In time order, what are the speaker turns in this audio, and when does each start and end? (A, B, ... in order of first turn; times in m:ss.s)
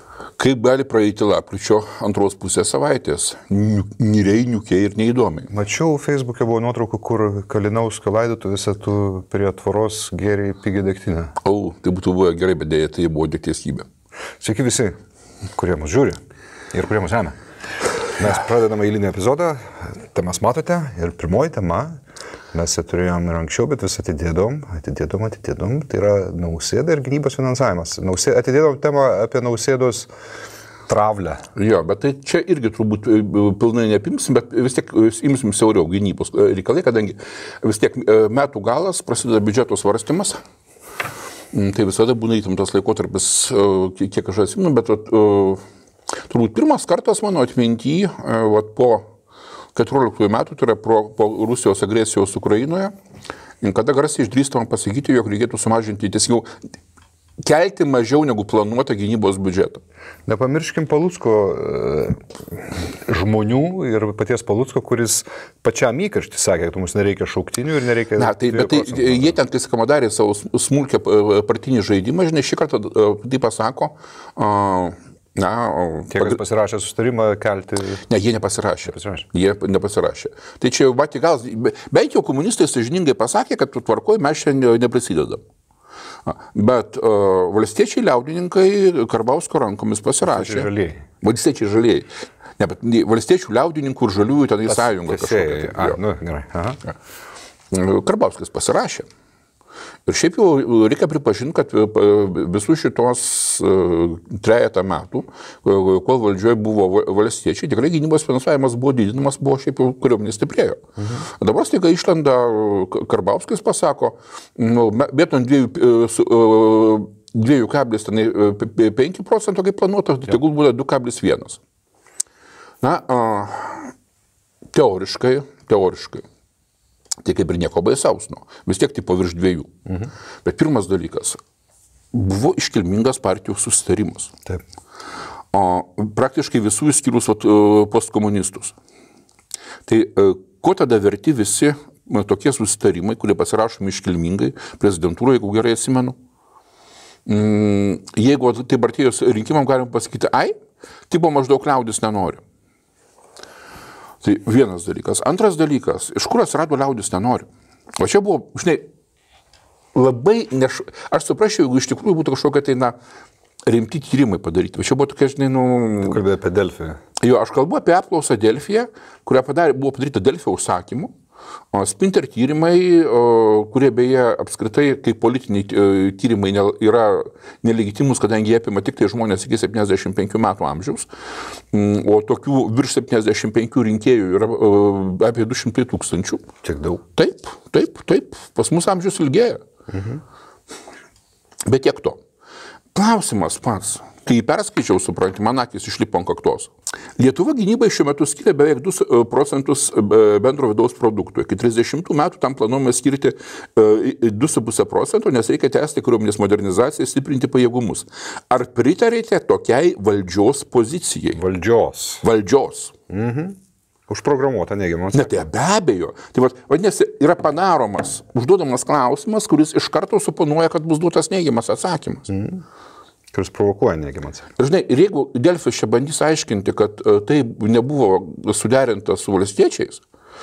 0:00.4-0:05.5 A
0:05.5-0:11.3 B
0:11.4-0:13.9 A
0:14.4-0:14.9 B
0:15.6-0:16.2 B
0:16.7-0:17.4 B
0:18.2-0:22.0 B
0:22.5-0:30.1 B
0:30.9-0:31.4 B
0:31.6-0:40.4 A
0:41.5-0:45.6 A
0:46.3-0:49.1 A
0:49.8-0:52.9 A
0:53.6-0:56.5 A
0:57.4-0:59.8 A
1:00.3-1:09.4 B
1:08.2-1:16.4 A
1:16.1-1:18.1 B
1:18.1-1:25.4 A
1:18.9-1:19.3 B
1:26.3-1:30.7 A
1:30.2-1:31.0 B
1:31.2-1:36.0 A
1:34.7-1:36.8 B
1:37.7-1:39.1 A
1:40.1-2:01.6 A
2:02.8-2:03.9 A
2:04.7-2:06.2 A
2:07.2-2:09.8 A
2:10.4-2:11.4 A
2:12.1-2:14.3 A
2:15.5-2:18.8 A
2:19.9-2:26.2 A
2:27.3-2:30.6 A
2:31.1-2:32.4 A
2:34.2-2:38.8 A
2:40.0-2:43.0 A
2:43.7-2:46.2 A
2:46.0-2:47.0 B
2:47.2-2:51.1 A
2:51.7-3:01.1 A
3:01.7-3:06.4 A
3:06.6-3:07.0 B
3:07.2-3:09.6 A
3:09.9-3:10.2 B
3:11.7-3:12.2 A
3:12.9-3:31.4 A
3:31.4-3:32.2 B
3:32.2-3:32.9 A
3:33.1-3:33.6 B
3:34.1-3:35.5 B
3:35.1-3:42.3 A
3:42.3-3:42.6 B
3:43.3-3:44.5 B
3:44.6-3:50.0 A